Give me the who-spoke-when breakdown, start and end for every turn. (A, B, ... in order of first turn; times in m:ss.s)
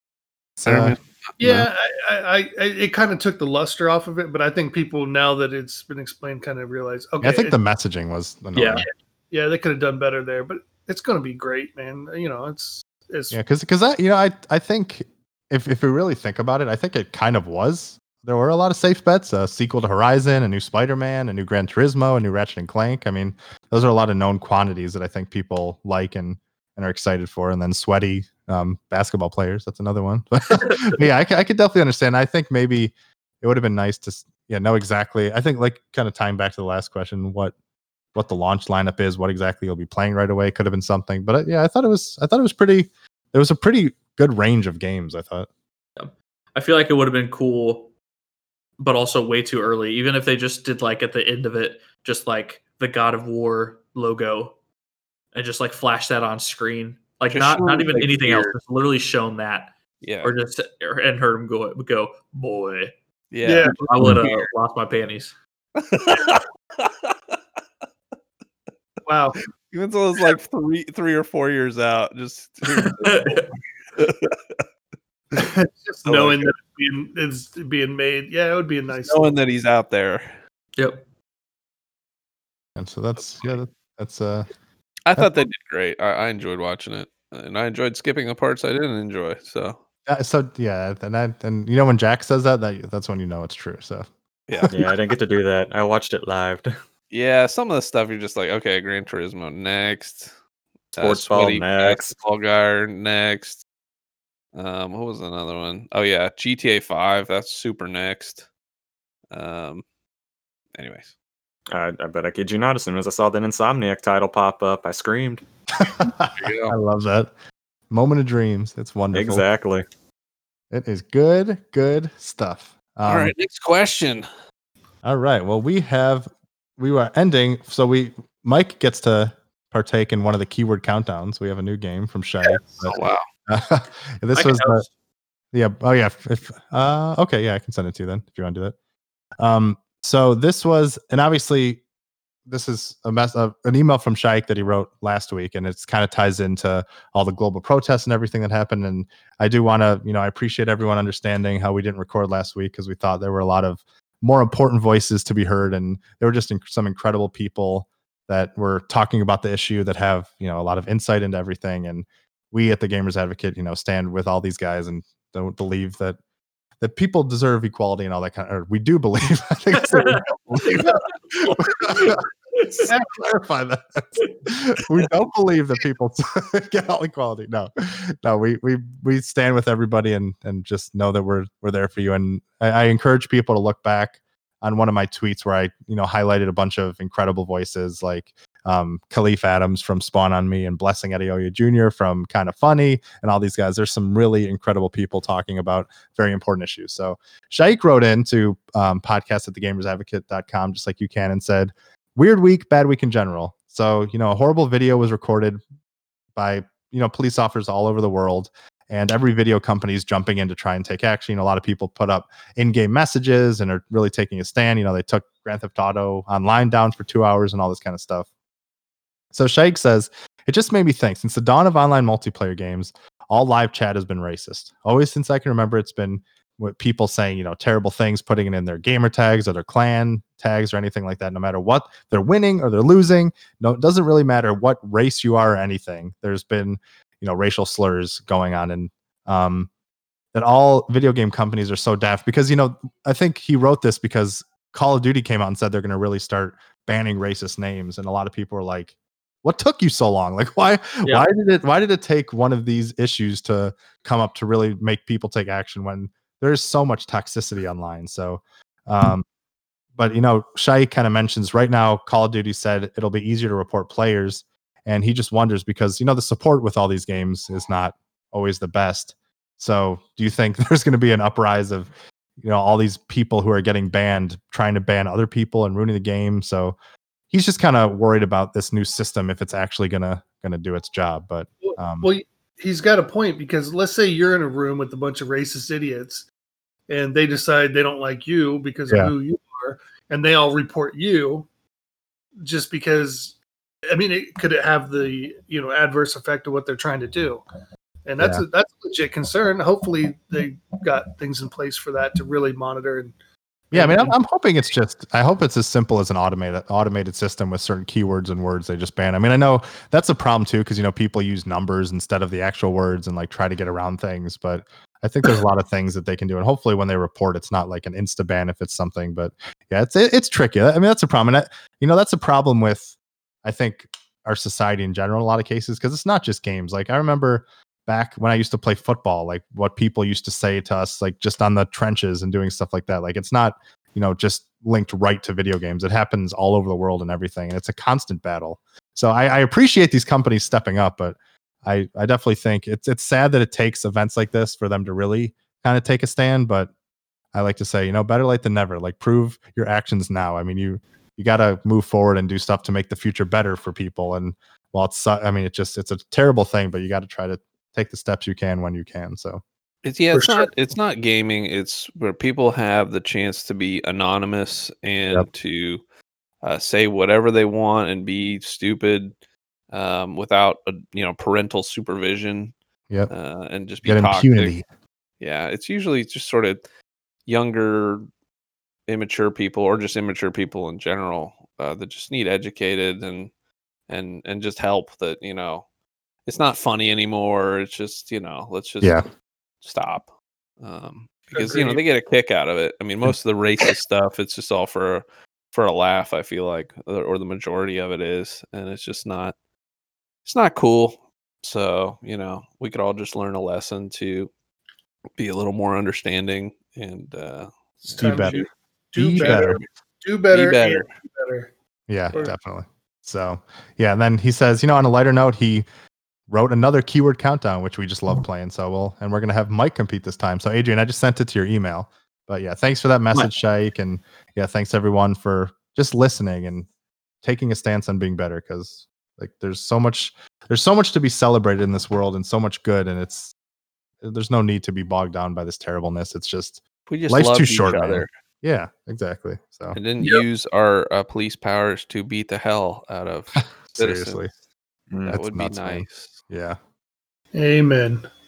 0:00.6-0:01.7 A
0:00.6-0:01.0 B
0:01.4-0:07.6 C
0:07.2-0:08.8 A
0:08.5-0:08.9 D
0:09.3-0:13.4 C
0:13.3-0:37.5 A
0:38.1-0:45.5 A
0:46.0-0:47.9 D
0:48.8-0:54.5 D
0:55.3-1:02.9 D
0:57.3-0:58.6 B
1:00.0-1:00.3 B
1:03.3-1:04.5 B
1:03.4-1:03.8 C
1:03.6-1:05.3 D
1:05.8-1:07.1 B
1:09.0-1:09.4 C
1:09.7-1:14.6 B
1:12.7-1:13.5 D
1:15.3-1:19.4 C
1:18.9-1:20.3 B
1:20.8-1:21.0 D
1:22.8-1:24.5 A
1:25.0-1:29.8 B
1:30.0-1:34.1 A
1:34.5-1:34.9 B
1:34.7-1:36.7 E
1:37.1-1:40.3 B
1:40.9-1:43.6 B
1:40.9-1:42.2 E
1:44.5-1:48.4 B
1:49.3-1:49.8 B
1:50.8-1:51.1 B
1:51.7-1:55.4 E
1:55.8-1:57.3 A
1:56.4-1:56.7 B
1:57.9-1:59.4 A
1:59.1-1:59.8 E
2:00.7-2:03.3 A
2:03.1-2:04.2 B
2:05.0-2:14.8 A
2:12.8-2:13.2 B
2:14.3-2:14.9 D
2:15.5-2:18.8 A
2:19.4-2:21.8 A
2:22.4-2:46.2 A
2:46.8-3:25.6 A
2:49.8-2:50.9 D
2:50.7-2:51.0 C
2:51.4-2:52.9 D
3:26.4-3:38.3 A
3:39.3-3:59.7 A
4:00.3-4:19.2 A
4:11.0-4:11.3 D
4:20.0-4:31.9 A
4:32.4-4:36.8 A
4:37.3-4:42.1 A
4:41.6-4:46.2 C
4:46.9-4:51.5 C
4:52.4-4:53.3 C
4:53.9-4:57.4 C
4:58.0-5:03.1 C
5:03.7-5:04.1 C
5:03.7-5:46.7 A
5:47.3-5:59.4 A
5:59.8-6:05.8 B
6:00.1-6:00.5 C
6:06.4-6:09.1 B
6:09.7-6:12.5 B
6:13.1-6:14.5 B
6:13.8-6:14.6 A
6:15.2-6:16.6 B
6:17.3-6:18.0 B
6:18.9-6:23.3 B
6:23.9-6:25.6 B
6:26.3-6:29.0 B
6:29.6-6:30.1 B
6:30.6-6:39.3 B
6:31.5-6:31.7 D
6:40.2-6:44.3 B
6:45.2-6:48.2 B
6:47.9-6:51.5 C
6:47.9-6:49.6 A
6:49.2-6:49.5 B
6:50.3-6:50.9 B
6:51.9-6:55.6 A
6:56.3-7:06.7 A
7:07.2-7:13.3 A
7:14.0-7:19.8 A
7:16.9-7:18.1 B
7:19.7-7:24.2 B
7:23.6-7:24.3 A
7:24.9-7:25.2 E
7:25.0-7:26.2 B
7:25.1-7:26.6 A
7:27.3-7:28.0 C